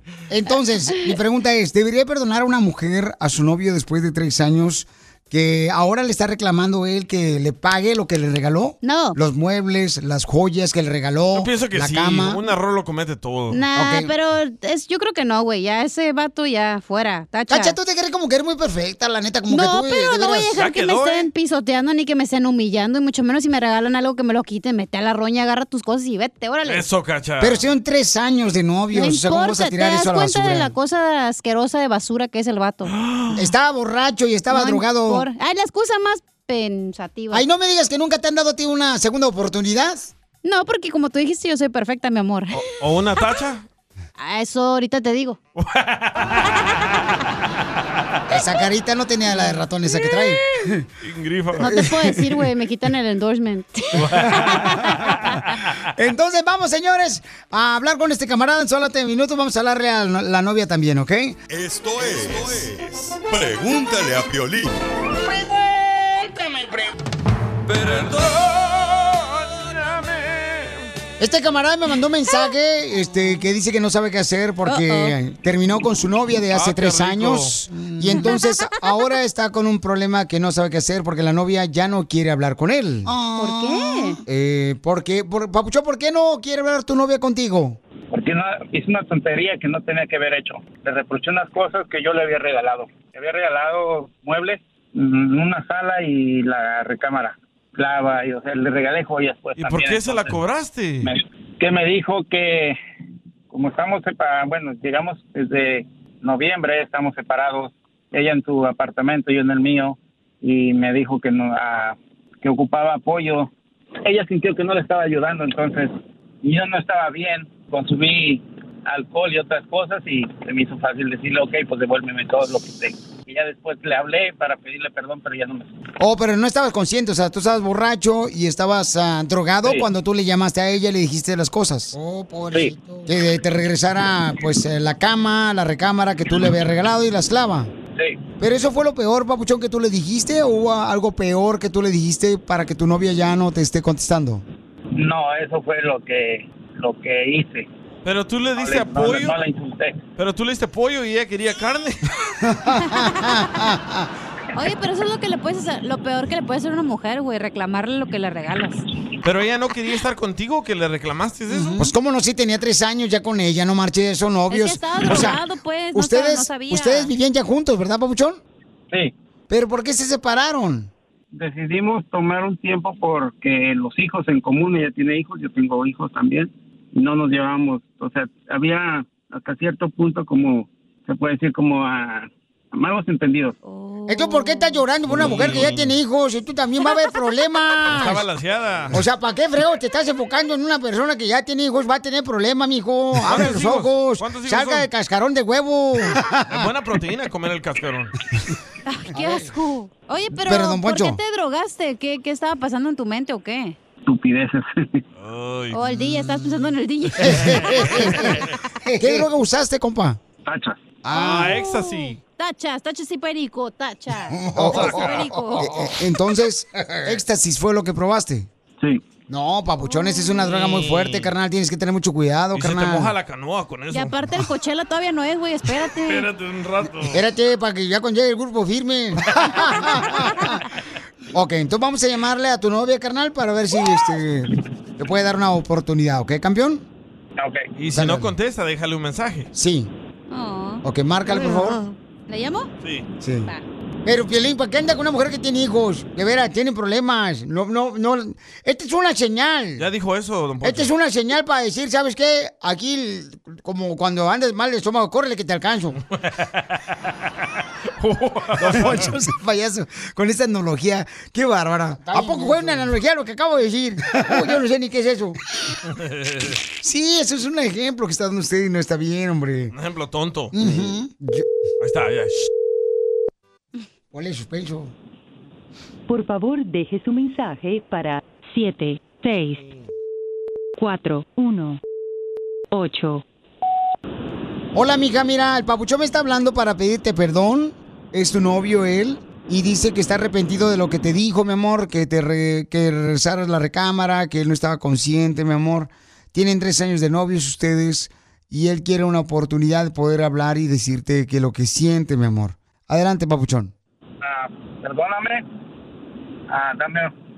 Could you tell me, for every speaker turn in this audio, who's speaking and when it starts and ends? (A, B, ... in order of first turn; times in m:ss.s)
0:00.3-0:12.4 A
0:08.8-0:09.2 B
0:11.3-0:13.6 C
0:13.5-0:17.8 B
0:13.7-0:14.1 A
0:17.5-0:20.5 A
0:19.5-0:26.8 B
0:20.6-0:21.3 C
0:26.6-0:27.7 C
0:27.4-0:30.7 A
0:28.9-0:32.9 B
0:32.9-0:33.5 C
0:33.3-0:35.3 A
0:34.5-0:37.4 B
0:37.3-0:40.1 A
0:40.4-0:42.6 B
0:42.6-0:43.6 C
0:44.2-0:45.4 B
0:45.6-0:46.6 C
0:48.3-0:50.8 A
0:51.0-0:51.8 C
0:51.6-0:52.4 A
0:51.6-0:55.2 B
0:54.0-0:55.7 C
0:56.0-1:01.4 A
1:01.5-1:04.7 D
1:07.8-1:10.9 C
1:11.2-1:27.8 A
1:14.7-1:15.2 B
1:16.5-1:17.6 C
1:18.1-1:18.7 B
1:23.1-1:24.2 B
1:28.1-1:40.4 E
1:39.6-1:41.1 C
1:41.0-1:42.8 E
1:43.5-1:53.5 E
1:54.0-2:05.7 E
2:06.0-2:17.7 A
2:12.5-2:12.8 E
2:18.4-2:24.4 A
2:25.0-2:27.7 E
2:28.0-2:29.3 C
2:28.6-2:30.0 E
2:30.2-2:32.1 C
2:32.4-2:34.1 A
2:32.8-2:33.4 B
2:34.6-2:38.8 B
2:39.2-2:41.9 C
2:41.8-2:45.4 A
2:44.5-2:47.1 B
2:45.9-2:48.4 A
2:49.5-2:50.9 A
2:51.3-3:03.6 E
3:03.6-3:04.8 B
3:04.1-3:08.2 A
3:05.1-3:06.0 C
3:07.9-3:09.0 C
3:08.9-3:16.7 A
3:13.2-3:14.9 C
3:16.5-3:18.2 C
3:18.9-3:23.8 B
3:19.1-3:19.5 A
3:20.4-3:21.2 A
3:24.1-3:25.0 E
3:25.2-3:25.8 C
3:25.7-3:28.3 B
3:27.2-3:30.2 A
3:27.2-3:28.5 C
3:30.4-3:30.8 E
3:31.0-3:31.6 A
3:31.1-3:32.2 C
3:31.2-3:35.7 B
3:34.4-3:38.5 A
3:34.6-3:35.4 C
3:39.3-3:43.1 A
3:39.9-3:40.4 B
3:40.4-3:41.3 C
3:42.6-3:44.2 C
3:43.9-3:46.3 B
3:46.0-3:47.2 C
3:47.1-3:50.6 A
3:51.3-3:56.8 A
3:57.4-3:57.6 E
3:57.8-3:59.5 C
3:57.9-3:58.3 A
3:59.5-3:59.9 A
4:00.3-4:00.8 B
4:00.8-4:01.8 A
4:02.3-4:02.7 B
4:03.2-4:03.5 A
4:04.0-4:09.9 A
4:09.8-4:10.9 C
4:10.6-4:16.0 A
4:18.0-4:19.1 C
4:18.6-4:25.4 A
4:25.9-4:26.6 C
4:26.8-4:29.7 A
4:29.7-4:30.9 C
4:30.5-4:31.5 A
4:31.8-4:32.5 C
4:34.1-4:34.9 A
4:36.1-4:39.6 F
4:40.8-4:41.8 F
4:42.7-4:43.2 F
4:44.7-5:03.7 A
5:04.2-5:05.4 E
5:06.5-5:07.1 E